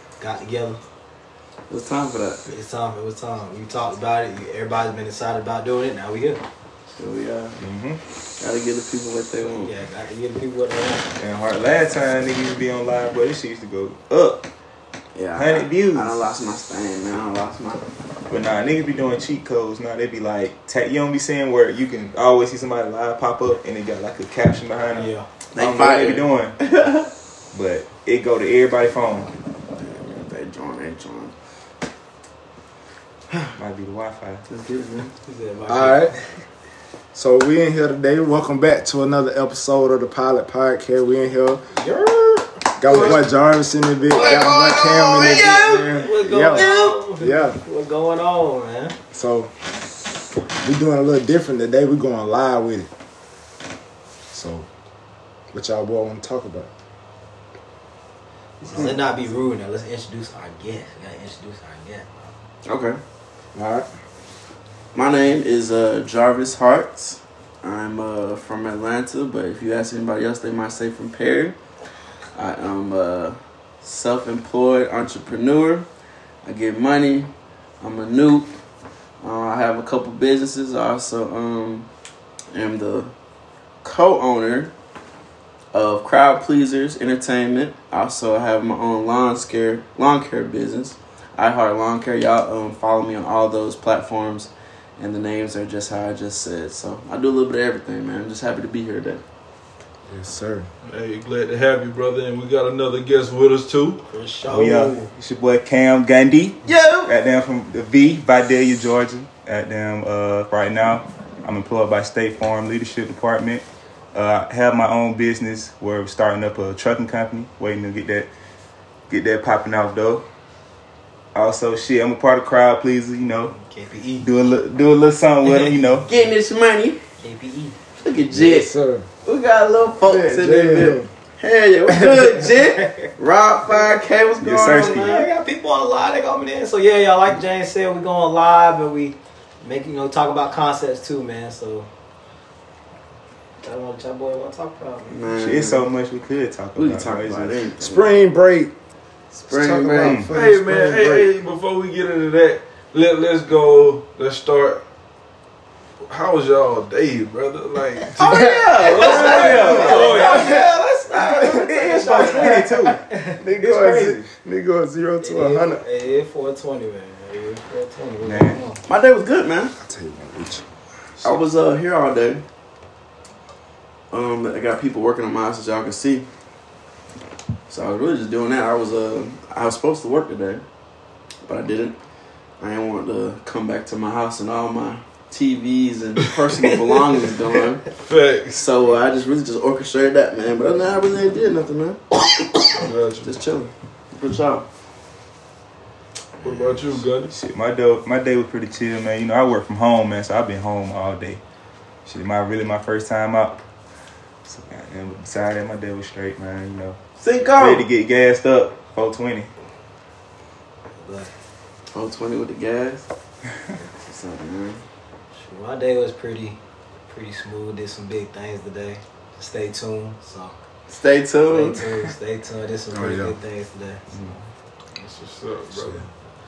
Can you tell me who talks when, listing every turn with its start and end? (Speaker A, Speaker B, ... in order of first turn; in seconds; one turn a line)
Speaker A: 0.2-0.8
Speaker B: 1.7-2.5
Speaker A: 2.5-6.4
Speaker B: 7.0-7.6
Speaker C: 7.6-8.0
Speaker B: 8.4-9.7
Speaker A: 9.5-11.1
Speaker C: 11.2-14.5
Speaker B: 15.2-17.8
Speaker C: 15.4-16.2
Speaker C: 18.3-26.6
Speaker A: 24.9-25.3
Speaker B: 25.6-27.1
Speaker C: 27.5-29.3
Speaker B: 29.8-31.3
Speaker C: 33.6-34.5
Speaker B: 34.5-35.1
Speaker A: 35.2-36.2
Speaker D: 35.7-36.1
Speaker D: 37.1-41.6
Speaker A: 41.8-43.2
Speaker D: 42.8-47.6
Speaker B: 44.1-46.0
Speaker A: 44.1-45.1
Speaker A: 45.9-49.0
Speaker B: 46.5-46.9
Speaker D: 49.1-49.5
Speaker D: 50.6-52.9
Speaker D: 54.3-54.7
Speaker D: 55.5-56.7
Speaker A: 58.6-62.4
Speaker D: 58.7-59.0
Speaker B: 62.6-63.0
Speaker D: 63.5-63.9
Speaker B: 65.0-71.6
Speaker B: 72.3-75.9
Speaker B: 76.5-78.5
Speaker B: 79.2-81.9
Speaker B: 82.5-83.1
Speaker B: 83.8-84.7
Speaker B: 85.7-99.2
Speaker D: 100.1-100.7
Speaker E: 100.8-104.0
Speaker A: 104.1-105.1
Speaker C: 104.5-118.3
Speaker B: 106.7-107.2
Speaker C: 119.1-120.2
Speaker C: 121.3-123.5
Speaker A: 123.5-124.3
Speaker C: 124.2-126.1
Speaker B: 126.1-127.0
Speaker A: 127.2-127.8
Speaker B: 128.0-128.7
Speaker D: 128.3-129.1
Speaker B: 129.2-135.3
Speaker D: 130.0-131.1
Speaker A: 132.0-133.1
Speaker C: 134.4-135.1
Speaker A: 134.7-141.9
Speaker A: 143.6-145.2
Speaker B: 145.1-145.9
Speaker C: 145.3-147.7
Speaker B: 146.8-148.1
Speaker D: 147.8-148.7
Speaker B: 149.3-150.3
Speaker D: 149.5-151.3
Speaker C: 150.0-150.3
Speaker E: 150.3-154.8
Speaker E: 156.1-160.4
Speaker B: 158.2-160.4
Speaker D: 158.3-158.7
Speaker A: 158.8-164.2
Speaker C: 158.9-160.6
Speaker D: 159.3-162.7
Speaker C: 161.3-163.0
Speaker D: 163.4-165.8
Speaker A: 165.2-168.8
Speaker C: 168.2-168.6
Speaker B: 168.9-169.7
Speaker D: 169.8-170.6
Speaker B: 171.2-172.4
Speaker B: 174.1-176.3
Speaker B: 177.7-180.6
Speaker B: 181.5-182.0
Speaker B: 182.6-187.9
Speaker E: 187.9-188.7
Speaker B: 188.6-192.6
Speaker E: 192.8-193.4
Speaker B: 193.2-194.7
Speaker B: 196.4-196.7
Speaker E: 196.4-197.3
Speaker C: 197.3-201.4
Speaker C: 202.1-203.6
Speaker C: 204.4-207.0
Speaker B: 207.2-207.9
Speaker C: 207.6-209.5
Speaker A: 211.0-211.3
Speaker B: 211.9-213.1
Speaker B: 214.0-214.8
Speaker A: 215.4-220.5
Speaker B: 220.9-221.8
Speaker A: 221.5-224.0
Speaker D: 222.9-223.4
Speaker C: 224.1-224.4
Speaker E: 225.0-226.1